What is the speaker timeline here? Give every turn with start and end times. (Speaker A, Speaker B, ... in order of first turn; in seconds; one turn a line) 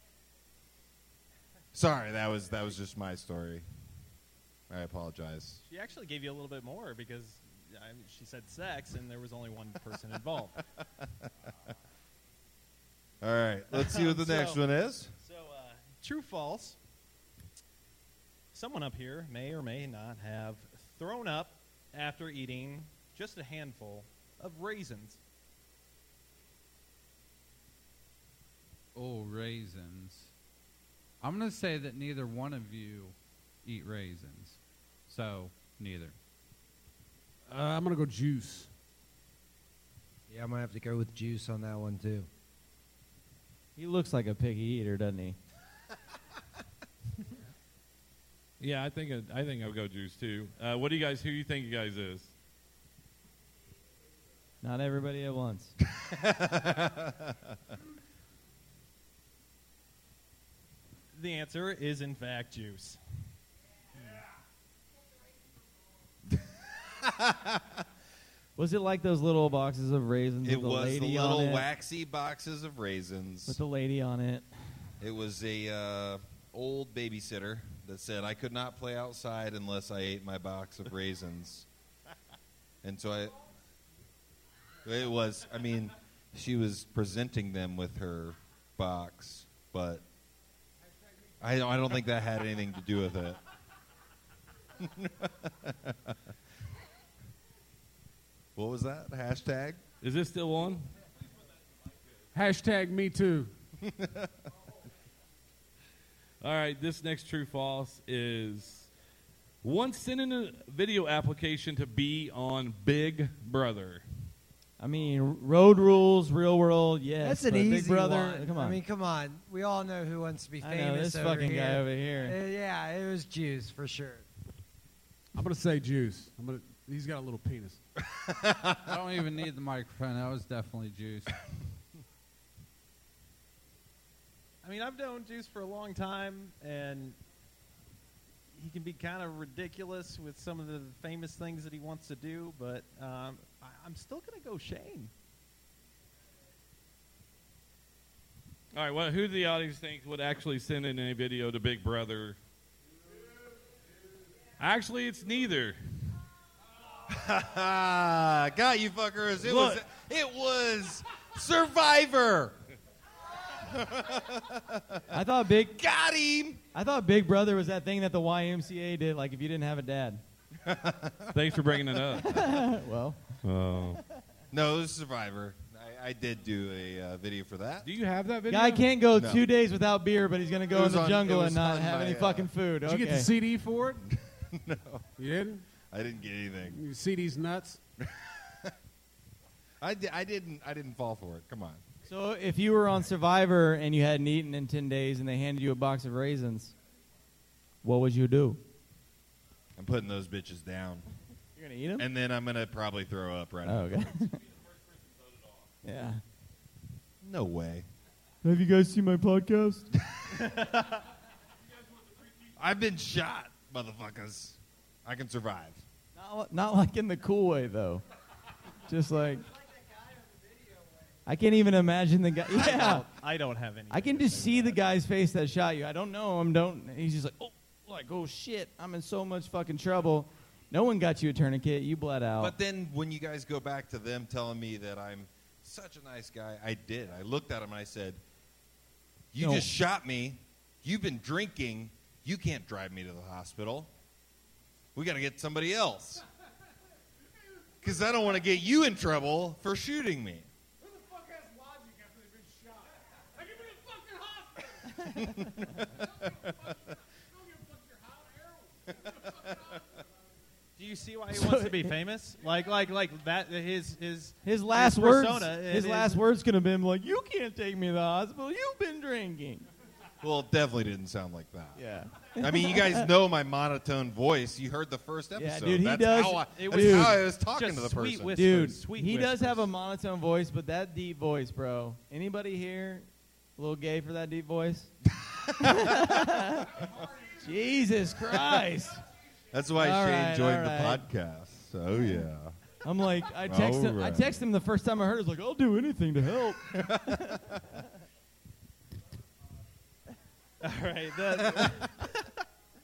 Speaker A: 1.7-3.7
Speaker A: 4.7-5.6
Speaker B: 5.7-10.6
Speaker A: 13.2-15.1
Speaker B: 13.7-14.6
Speaker B: 15.2-16.8
Speaker B: 18.5-25.2
Speaker C: 28.9-30.3
Speaker C: 31.2-36.1
Speaker D: 37.5-38.7
Speaker E: 40.3-42.3
Speaker F: 43.8-45.4
Speaker G: 48.6-52.3
Speaker F: 54.6-55.7
Speaker A: 56.0-57.3
Speaker B: 61.1-63.0
Speaker A: 67.0-67.6
Speaker F: 68.6-71.7
Speaker A: 70.4-73.6
Speaker F: 73.5-74.5
Speaker A: 75.0-81.7
Speaker A: 82.8-83.4
Speaker A: 84.8-90.0
Speaker A: 91.4-93.4
Speaker A: 94.8-96.0
Speaker A: 98.6-99.8
Speaker G: 100.0-100.9
Speaker D: 102.3-103.5
Speaker A: 103.8-104.3
Speaker G: 106.4-108.9
Speaker G: 109.6-114.0
Speaker F: 114.8-118.8
Speaker E: 117.2-124.2
Speaker F: 120.6-122.4
Speaker D: 125.3-127.8
Speaker A: 128.1-128.8
Speaker C: 128.8-131.4
Speaker B: 134.6-137.2
Speaker B: 138.5-145.1
Speaker G: 148.7-152.4
Speaker G: 154.6-155.8
Speaker A: 157.1-162.6
Speaker A: 163.6-165.0
Speaker F: 165.1-165.8
Speaker A: 165.6-166.6
Speaker F: 166.7-170.2
Speaker A: 170.6-171.4
Speaker G: 171.3-172.7
Speaker F: 172.2-173.4
Speaker G: 173.4-174.0
Speaker A: 174.5-177.9
Speaker G: 177.8-179.0
Speaker F: 178.5-183.3
Speaker A: 179.1-179.4
Speaker A: 180.7-182.5
Speaker D: 182.8-184.0
Speaker A: 184.1-185.1
Speaker D: 185.2-185.6
Speaker A: 185.9-186.8
Speaker D: 186.7-187.8
Speaker A: 188.0-188.7
Speaker A: 189.8-191.8
Speaker F: 192.1-196.7
Speaker F: 197.8-198.6
Speaker A: 199.8-201.1
Speaker F: 201.6-202.1
Speaker A: 202.0-203.9
Speaker F: 203.7-204.4
Speaker F: 205.8-206.2
Speaker A: 207.2-207.9
Speaker F: 208.4-209.9
Speaker A: 212.6-215.8
Speaker F: 216.2-218.0
Speaker F: 218.9-219.5
Speaker F: 221.3-223.1
Speaker B: 222.5-224.8
Speaker F: 223.9-232.6
Speaker A: 232.4-238.2
Speaker A: 239.3-243.9
Speaker F: 239.4-239.7
Speaker A: 244.9-246.2
Speaker A: 247.8-250.5
Speaker A: 255.2-256.7
Speaker A: 259.1-259.8
Speaker B: 260.8-266.2
Speaker F: 261.3-262.0
Speaker F: 264.4-269.7
Speaker A: 270.2-271.8
Speaker F: 271.8-273.1
Speaker A: 272.4-278.7
Speaker F: 275.4-277.3
Speaker B: 276.5-279.6
Speaker F: 278.3-284.9
Speaker A: 285.2-285.6
Speaker F: 285.6-289.0
Speaker A: 289.5-292.6
Speaker F: 289.8-291.1
Speaker F: 292.8-297.2
Speaker A: 293.4-294.3
Speaker A: 296.7-297.2
Speaker B: 300.6-302.1
Speaker A: 301.3-301.9